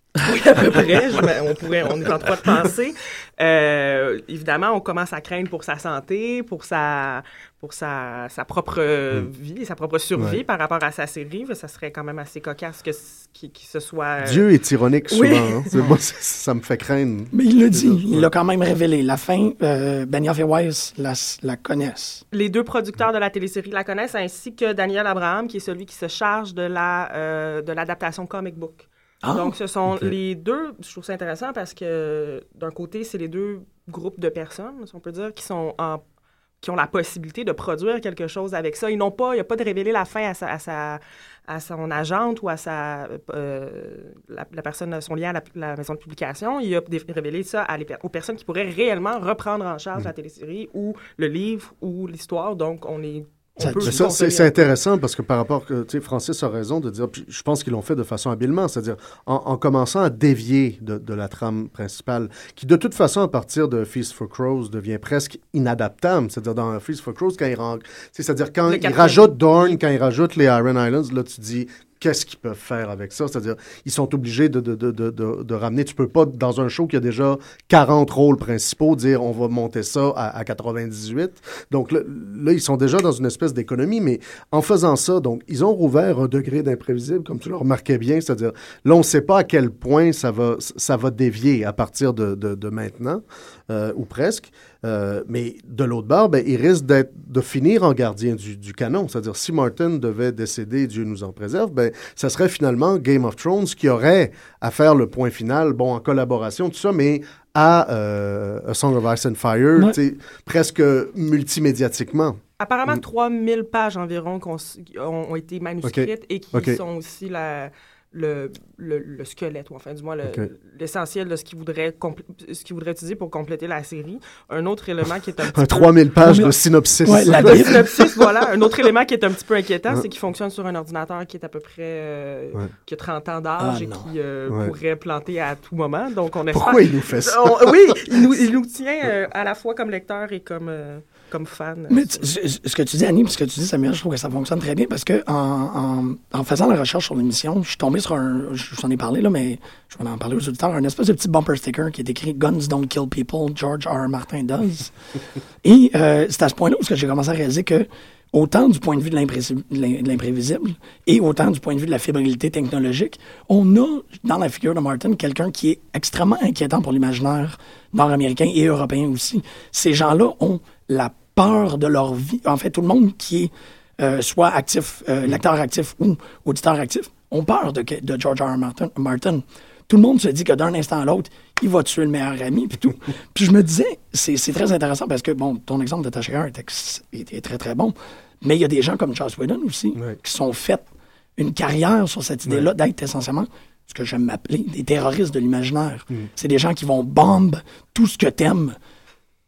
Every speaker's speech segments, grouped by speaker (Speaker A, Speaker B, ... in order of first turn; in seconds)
Speaker A: 0.2-14.4, 15.1-15.8, 22.3-36.0, 36.6-54.7, 68.7-69.8, 112.6-126.0, 127.3-142.3
Speaker B: 14.2-18.3, 53.8-113.0, 115.8-116.8, 125.5-128.2, 136.5-138.2
Speaker C: 17.3-22.2, 29.2-29.5, 53.6-54.0, 126.2-126.5, 127.0-127.8, 133.6-134.1, 141.9-154.9, 155.6-190.8, 191.4-198.8